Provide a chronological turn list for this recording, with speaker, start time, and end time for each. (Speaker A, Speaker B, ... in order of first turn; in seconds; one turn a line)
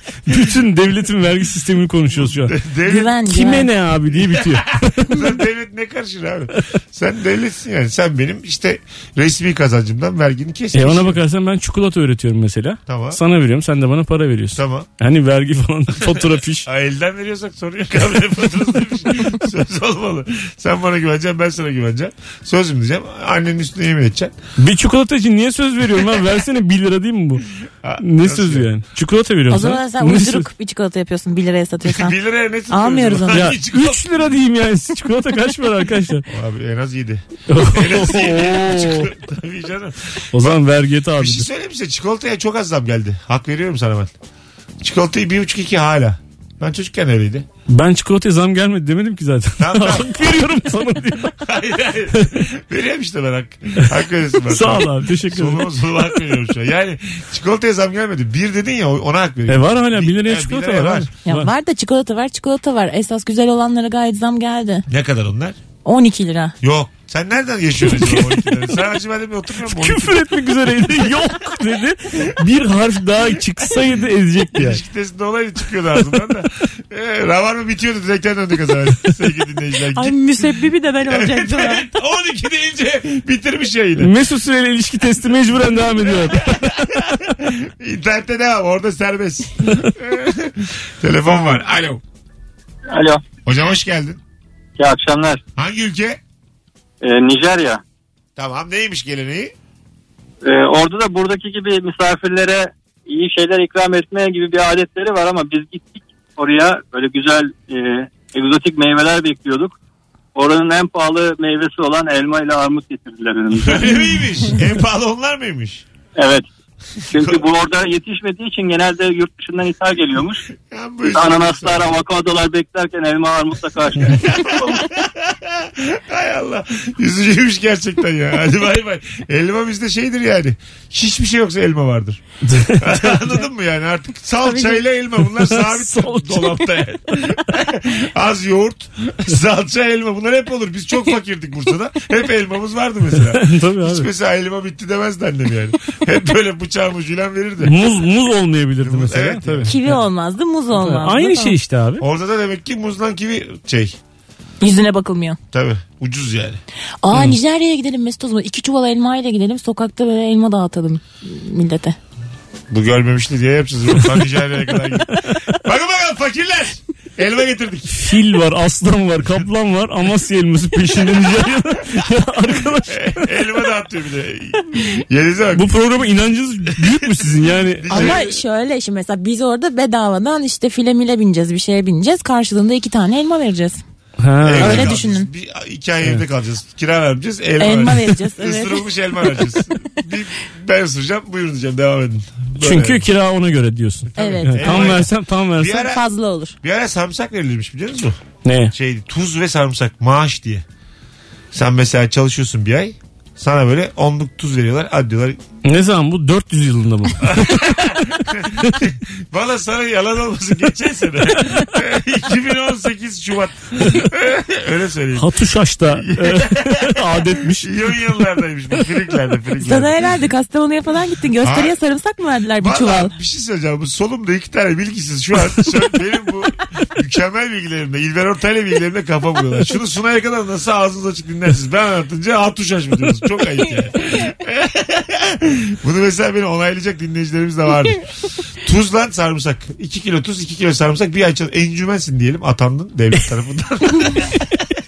Speaker A: 0.2-2.5
Speaker B: 2.1-3.1
Speaker C: 2.9-3.7
Speaker A: 3.3-5.3
Speaker B: 4.1-11.2
Speaker A: 10.7-16.7
Speaker B: 12.9-13.2
Speaker B: 14.5-14.9
Speaker B: 16.0-24.4
Speaker A: 24.6-27.4
Speaker B: 27.8-28.7
Speaker A: 28.0-30.5
Speaker C: 29.5-32.2
Speaker B: 31.8-34.0
Speaker C: 32.7-33.5
Speaker A: 33.3-36.2
Speaker B: 36.3-40.6
Speaker A: 37.5-39.1
Speaker A: 40.3-41.4
Speaker B: 41.2-44.1
Speaker B: 44.8-47.5
Speaker A: 47.7-51.4
Speaker B: 49.6-50.3
Speaker B: 51.4-61.1
Speaker A: 54.5-55.7
Speaker A: 59.5-61.5
Speaker C: 61.2-64.9
Speaker B: 64.9-65.6
Speaker C: 65.8-66.6
Speaker B: 66.6-71.1
Speaker A: 67.9-68.5
Speaker A: 69.7-74.8
Speaker B: 74.5-80.2
Speaker C: 79.9-81.9
Speaker B: 81.0-84.1
Speaker A: 84.0-86.8
Speaker B: 86.0-92.0
Speaker D: 92.9-93.2
Speaker B: 93.4-94.2
Speaker D: 94.8-95.4
Speaker B: 95.6-96.2
Speaker D: 97.0-97.8
Speaker B: 98.4-99.5
Speaker D: 100.4-109.8
Speaker D: 110.3-113.9
Speaker B: 113.5-115.8
Speaker D: 116.2-116.5
Speaker B: 117.0-117.4
Speaker D: 117.1-120.4
Speaker B: 120.7-121.9
Speaker D: 121.1-124.9
Speaker B: 124.0-147.9
Speaker A: 132.4-133.3
Speaker C: 134.4-134.8
Speaker A: 135.4-136.6
Speaker A: 143.3-144.1
Speaker A: 147.6-150.0
Speaker B: 148.8-149.8
Speaker C: 149.7-151.6
Speaker A: 150.8-152.1
Speaker B: 152.0-154.0
Speaker C: 154.6-155.4
Speaker B: 155.5-156.6
Speaker C: 157.0-162.0
Speaker B: 162.7-168.0
Speaker A: 167.9-173.2
Speaker B: 172.9-175.7
Speaker A: 175.5-178.2
Speaker B: 177.8-178.4
Speaker C: 177.9-183.8
Speaker A: 184.2-185.0
Speaker B: 184.4-193.1
Speaker C: 184.6-185.3
Speaker C: 187.6-188.9
Speaker A: 192.6-195.8
Speaker B: 194.1-196.0
Speaker C: 194.2-195.0
Speaker C: 195.7-196.6
Speaker B: 196.6-198.2
Speaker A: 198.4-198.7
Speaker B: 198.7-200.6
Speaker B: 201.5-205.4
Speaker A: 205.6-207.8
Speaker B: 207.2-215.3
Speaker A: 215.2-217.7
Speaker B: 215.9-220.1
Speaker C: 219.6-223.1
Speaker B: 221.4-221.8
Speaker B: 222.6-244.7